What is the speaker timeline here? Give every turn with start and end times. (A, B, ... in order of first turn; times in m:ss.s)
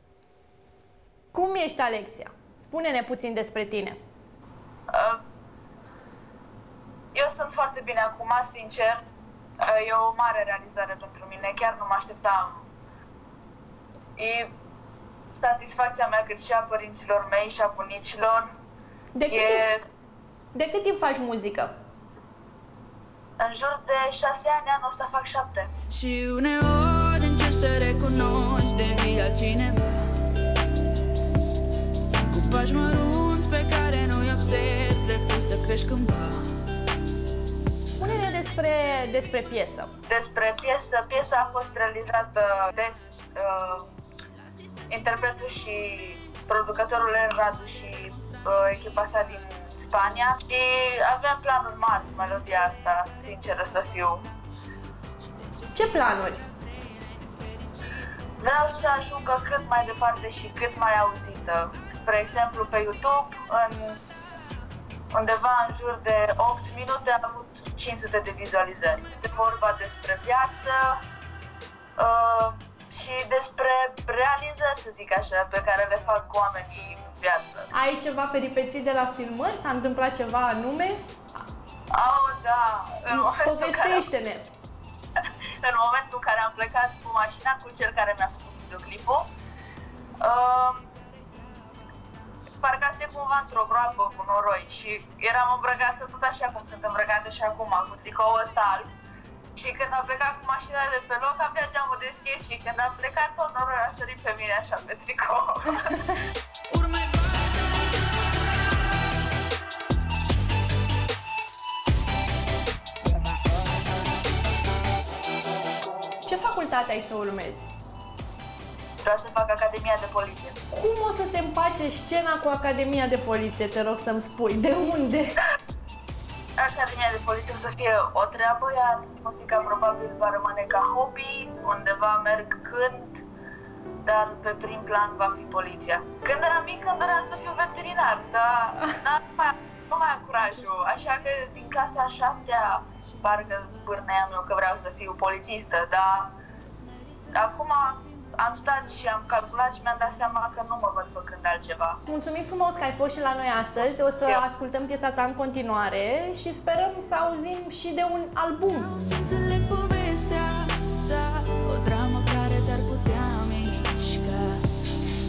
0:01.3-0:04.0 A
0:04.9-0:05.2 B
0:07.2-0:09.0 B
0:09.6-0:12.6 B
0:14.2-0:14.5 B
0:15.3-0:18.6 B
0:19.2-0:19.7 A
0:19.3-0:19.8 B
0:20.5-0:21.7 A
0:23.4-0:25.7 B
0:25.9-0:30.1 C
0:32.3-0:36.4 C
0:38.0-0:39.9 A
0:40.1-0:43.9 B
0:44.9-0:54.3 B
0:55.3-0:58.0 C
0:55.8-0:56.4 A
0:58.4-1:04.0 B
1:05.1-1:11.0 B
1:12.0-1:17.7 B
1:17.7-1:21.1 A
1:21.9-1:24.0 B
1:23.1-1:24.5 A
1:25.6-1:29.3 B
1:30.2-1:30.9 B
1:32.6-1:38.9 B
1:39.6-1:45.9 B
1:46.7-1:48.4 C
1:56.3-1:57.7 A
1:59.0-2:00.6 B
2:00.7-2:05.4 A
2:06.6-2:13.2 B
2:14.0-2:26.4 B
2:27.3-2:32.0 B
2:32.1-2:38.9 A
2:38.8-2:44.6 C